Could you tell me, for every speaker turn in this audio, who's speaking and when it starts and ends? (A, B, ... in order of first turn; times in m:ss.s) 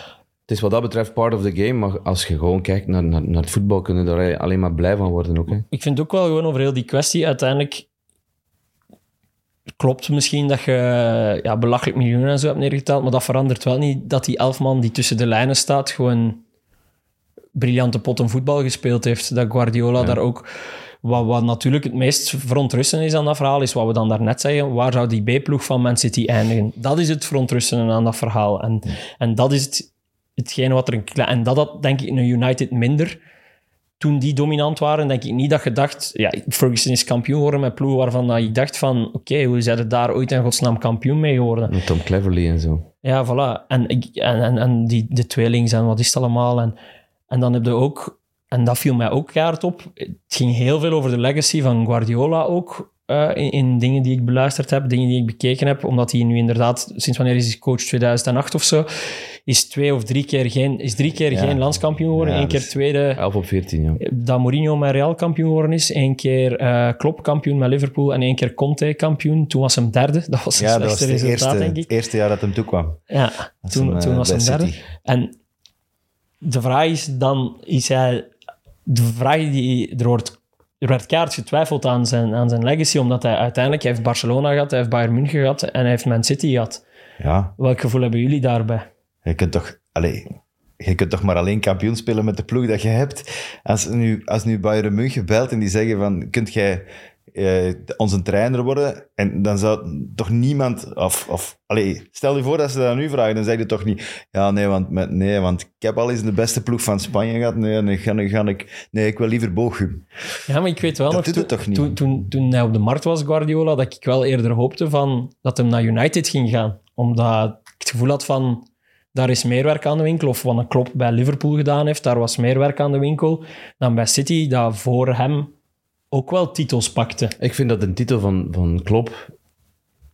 0:00.5-0:05.7 A
0:05.7-0:07.9 B
0:09.8-0:16.4 B
0:17.6-0:20.5 B
0:21.0-0:33.2 B
0:34.0-0:41.8 B
0:41.7-0:42.8 A
0:43.0-0:46.8 B
0:47.3-0:58.9 B
0:59.5-1:03.2 B
1:01.3-1:01.6 C
1:02.1-1:02.7 C
1:03.2-1:04.0 A
1:04.0-1:11.9 B
1:10.6-1:13.0 C
1:13.1-1:15.3 B
1:13.6-1:14.8 C
1:16.4-1:18.3 B
1:18.9-1:26.8 B
1:27.2-1:27.5 C
1:27.6-1:28.9 B
1:29.2-1:50.0 C
1:50.5-2:05.5 B
1:51.1-1:52.0 C
2:06.1-2:07.4 B
2:07.4-2:09.3 A